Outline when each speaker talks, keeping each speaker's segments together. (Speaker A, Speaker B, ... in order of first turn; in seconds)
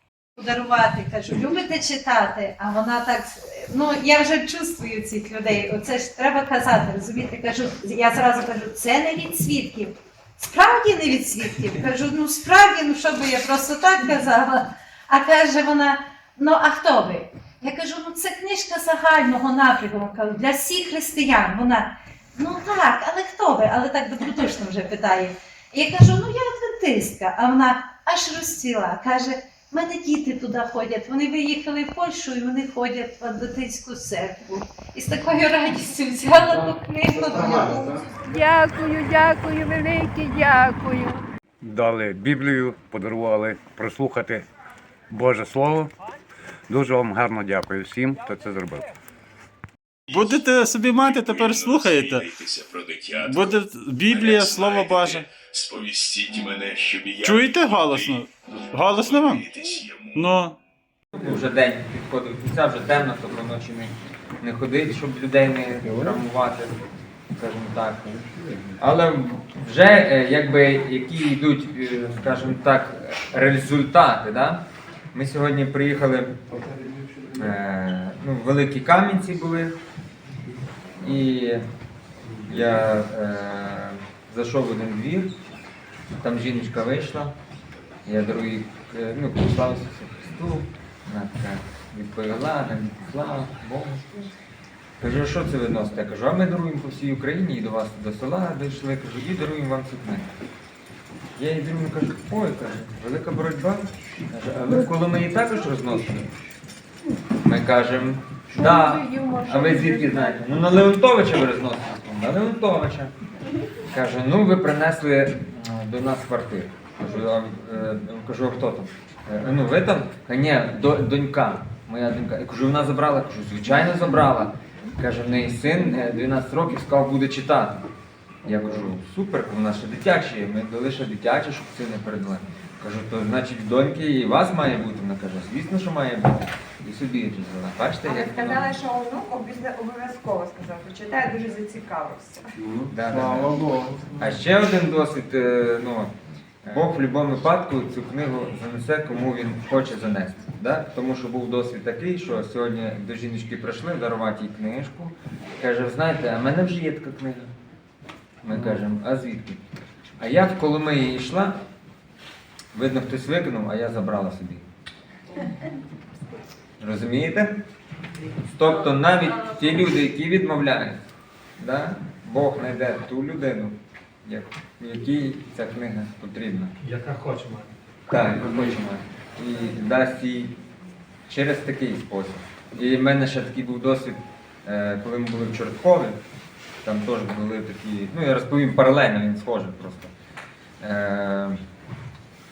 Speaker A: 0.4-37.9
Speaker B: 36.5-38.1, 65.7-66.2, 68.2-68.8, 76.5-77.6, 82.3-82.9, 128.5-128.9, 142.5-144.4, 158.5-158.8, 176.8-177.7, 178.4-178.8
Speaker C: 38.2-41.2
Speaker D: 41.6-44.5, 45.1-45.9, 46.7-48.9
Speaker E: 50.1-52.3, 53.2-55.3, 57.2-59.5, 60.1-60.6
Speaker F: 51.0-60.4
Speaker G: 61.1-66.8, 67.4-68.2, 68.8-76.4, 77.3-79.8, 81.0-81.7, 82.5-85.3, 86.2-87.4, 88.1-94.3, 95.0-100.3, 101.4-106.3, 107.4-113.1, 113.9-127.8, 128.4-138.7, 142.9-143.6, 144.2-157.6, 158.4-159.6, 160.2-161.6, 162.7-164.7, 166.8-167.6, 168.4-171.1, 171.6-176.7, 178.1-180.6, 181.3-186.2, 186.8-190.1, 190.8-191.6
Speaker H: 108.6-110.3, 138.0-142.5